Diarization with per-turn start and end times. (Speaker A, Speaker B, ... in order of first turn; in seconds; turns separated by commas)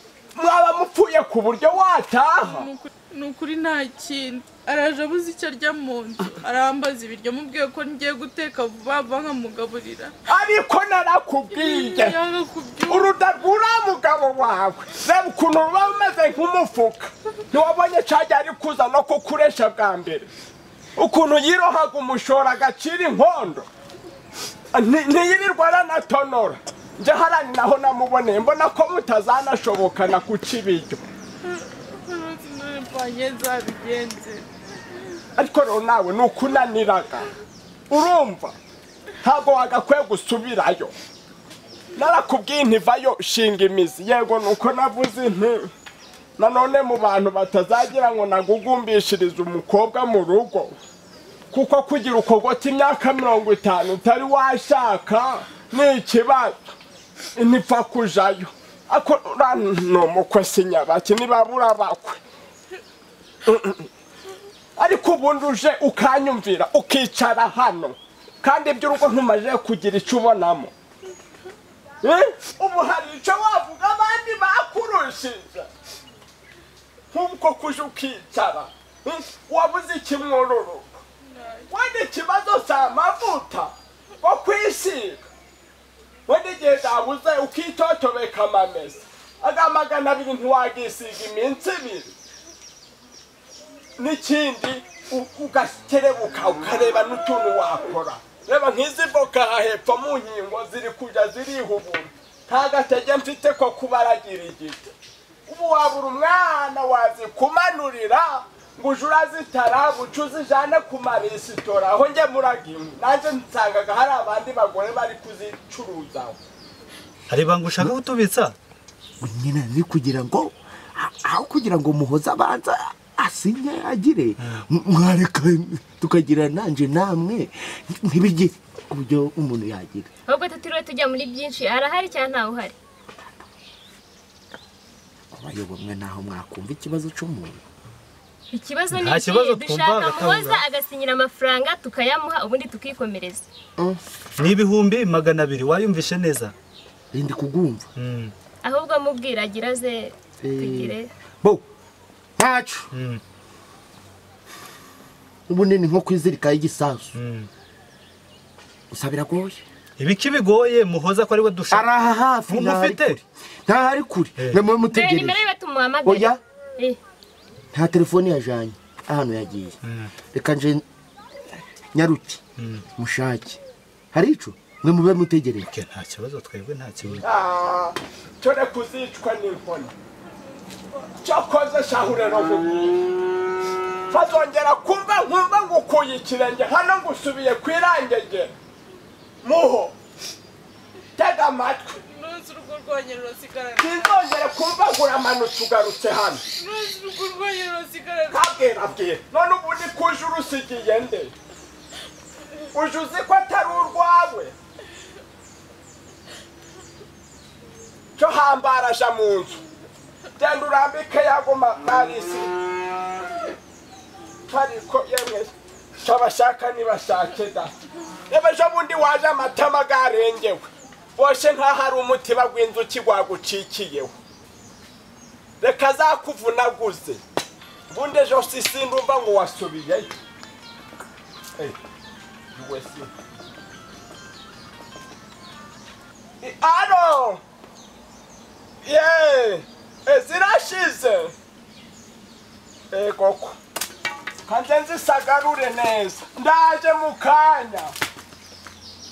Speaker A: 0.4-2.7, Speaker B: 2.4-10.1, Speaker A: 10.3-12.2, Speaker B: 11.5-13.1, Speaker A: 12.9-20.3, Speaker A: 21.0-23.7, Speaker A: 24.7-31.1, Speaker B: 31.4-34.5, Speaker A: 35.4-37.3, Speaker A: 37.9-38.5, Speaker A: 39.2-40.9, Speaker A: 42.0-45.7, Speaker A: 46.4-50.8, Speaker A: 51.5-56.5, Speaker A: 57.4-62.2, Speaker A: 63.5-63.9, Speaker A: 64.8-70.7, Speaker A: 72.0-75.7, Speaker A: 77.1-80.9, Speaker B: 81.3-81.7, Speaker A: 81.7-85.2, Speaker A: 86.3-92.1, Speaker A: 94.0-104.9, Speaker A: 105.5-116.4, Speaker C: 117.3-118.5, Speaker D: 119.2-130.1, Speaker E: 130.3-132.8, Speaker D: 135.3-137.6, Speaker E: 138.5-143.5, Speaker C: 138.9-140.6, Speaker C: 144.4-146.5, Speaker D: 147.1-147.9, Speaker C: 147.9-148.3, Speaker E: 148.6-151.1, Speaker D: 150.4-151.6, Speaker D: 152.4-152.9, Speaker C: 152.9-153.2, Speaker D: 155.5-157.1, Speaker C: 157.1-157.5, Speaker D: 158.9-159.6, Speaker C: 160.0-161.9, Speaker D: 161.7-165.4, Speaker C: 162.5-163.2, Speaker E: 164.9-167.0, Speaker D: 166.0-166.4, Speaker D: 167.7-169.8, Speaker C: 169.8-170.1, Speaker D: 170.3-170.8, Speaker D: 171.9-172.4, Speaker C: 172.6-172.8, Speaker D: 173.0-173.6, Speaker D: 174.1-175.7, Speaker C: 175.7-177.2, Speaker A: 177.2-179.9, Speaker A: 181.2-183.1, Speaker A: 184.1-188.6, Speaker A: 189.4-189.9, Speaker A: 191.2-192.0, Speaker B: 192.0-194.2, Speaker A: 193.8-196.4, Speaker B: 196.6-198.5, Speaker A: 198.3-201.3, Speaker A: 202.7-204.6, Speaker A: 208.2-209.6, Speaker A: 210.4-212.6, Speaker A: 214.5-215.5, Speaker A: 216.0-217.7, Speaker A: 218.3-224.1, Speaker A: 225.6-227.2, Speaker A: 227.9-230.1, Speaker A: 232.5-233.1, Speaker A: 236.4-237.4, Speaker A: 238.8-241.3, Speaker A: 242.9-243.6, Speaker A: 244.5-247.9